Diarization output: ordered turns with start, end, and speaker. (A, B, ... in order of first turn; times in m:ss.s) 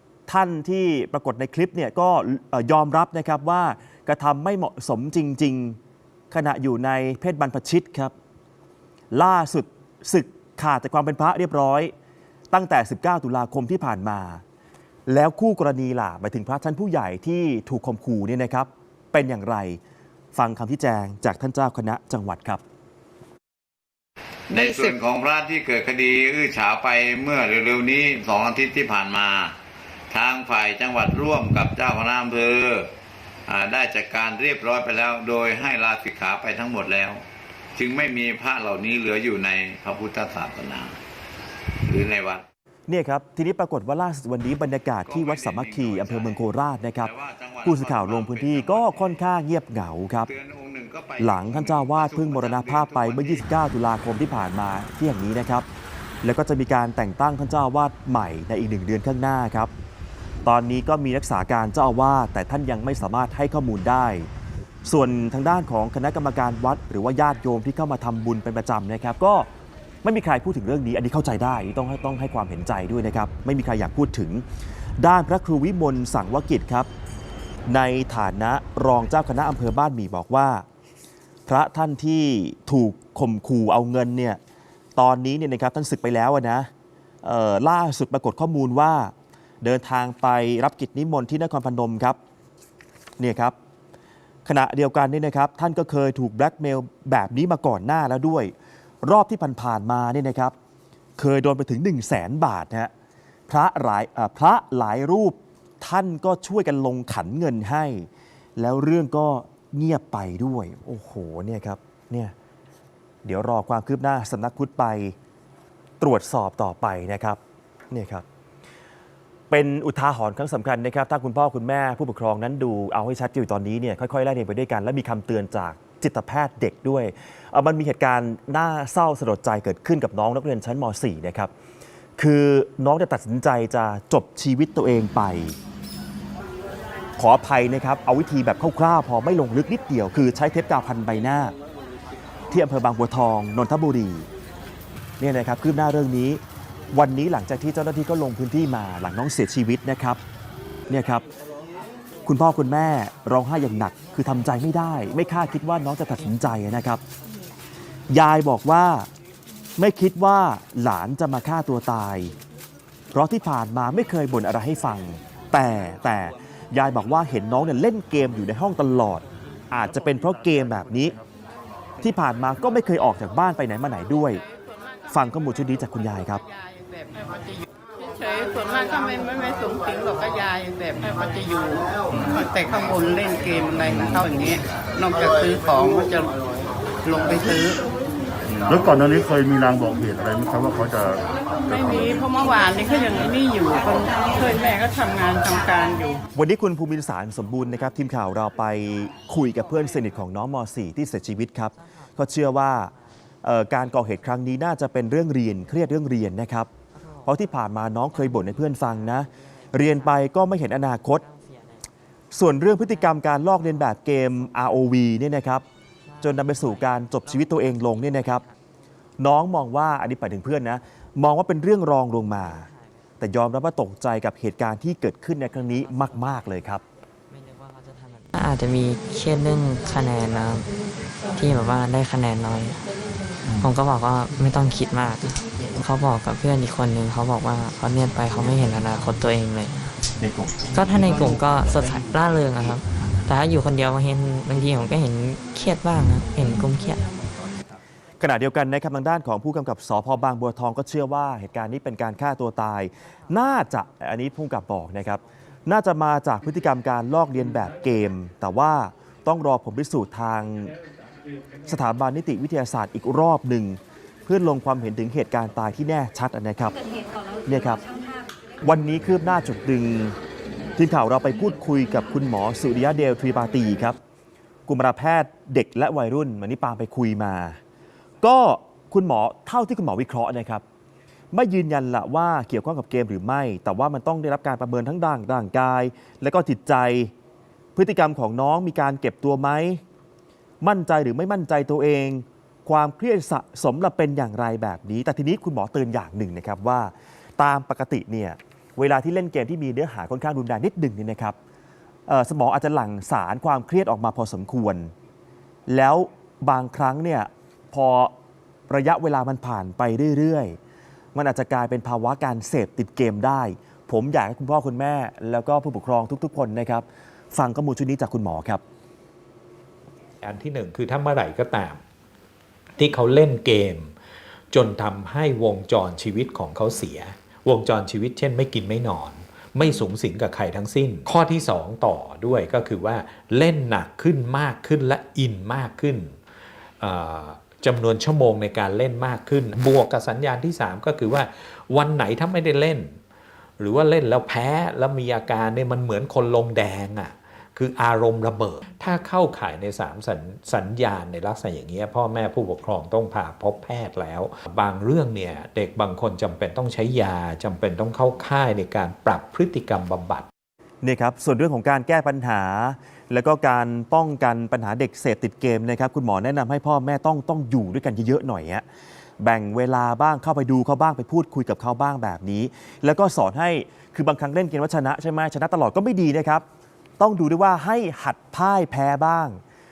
0:00.3-0:05.8 A
0:06.3-0:08.1 A
0:09.1-0:11.9 A
0:12.5-0:14.4 A
0:15.1-0:19.8 A
0:20.3-0:22.6 A
0:24.5-0:29.6 B
0:30.1-0:32.9 B
0:33.5-0:37.2 B
0:37.8-0:41.0 B
0:41.9-0:42.4 B
0:42.9-0:47.1 A
0:45.0-0:49.2 B
0:47.6-0:50.3 A
0:50.2-0:53.4 B
0:51.2-0:55.7 A
0:56.2-0:59.7 A
1:00.4-1:04.3 A
1:04.8-1:09.5 A
1:10.0-1:14.4 A
1:15.0-1:16.9 A
1:17.7-1:20.6 A
1:21.5-1:24.4 A
1:25.0-1:26.7 A
1:27.2-1:32.2 A
1:33.2-1:33.5 A
1:34.4-1:40.5 A
1:41.2-1:42.9 A
1:43.5-1:52.3 A
1:53.2-1:55.1 A
1:56.0-1:57.4 A
1:57.9-1:58.2 A
1:59.5-2:11.5 A
2:12.2-2:15.6 A
2:17.2-2:21.5 A
2:22.5-2:24.3 A
2:25.2-2:26.4 A
2:26.9-2:30.2 A
2:30.9-2:31.2 A
2:32.2-2:37.0 A
2:38.1-2:39.1 A
2:39.8-2:42.3 A
2:43.1-2:51.2 A
2:52.0-2:54.4 A
2:54.5-2:55.1 C
2:55.1-2:56.4 A
2:56.4-3:06.5 C
3:07.0-3:07.8 C
3:08.7-3:09.8 C
3:08.9-3:11.0 D
3:11.7-3:16.2 C
3:16.3-3:22.9 A
3:23.4-3:26.7 A
3:27.2-3:31.2 A
3:32.3-3:35.6 A
3:36.2-3:38.4 A
3:39.2-3:42.7 A
3:43.2-3:46.8 A
3:48.3-3:50.7 E
3:51.4-3:52.8 E
3:53.6-3:59.9 E
4:00.7-4:07.1 E
4:08.2-4:20.7 A
4:21.7-4:26.8 A
4:27.4-4:27.8 A
4:28.6-4:30.2 A
4:30.8-4:34.0 A
4:34.7-4:37.6 A
4:38.2-4:40.6 A
4:41.3-4:47.1 A
4:47.8-4:49.8 A
4:50.6-5:01.4 A
5:02.1-5:04.9 A
5:05.7-5:08.1 A
5:08.7-5:10.6 A
5:11.1-5:18.6 A
5:20.2-5:21.8 F
5:22.8-5:23.9 F
5:24.5-5:36.2 F
5:36.8-5:43.0 F
5:43.6-6:00.3 F
6:00.8-6:08.6 A
6:09.2-6:16.4 A
6:17.0-6:19.4 A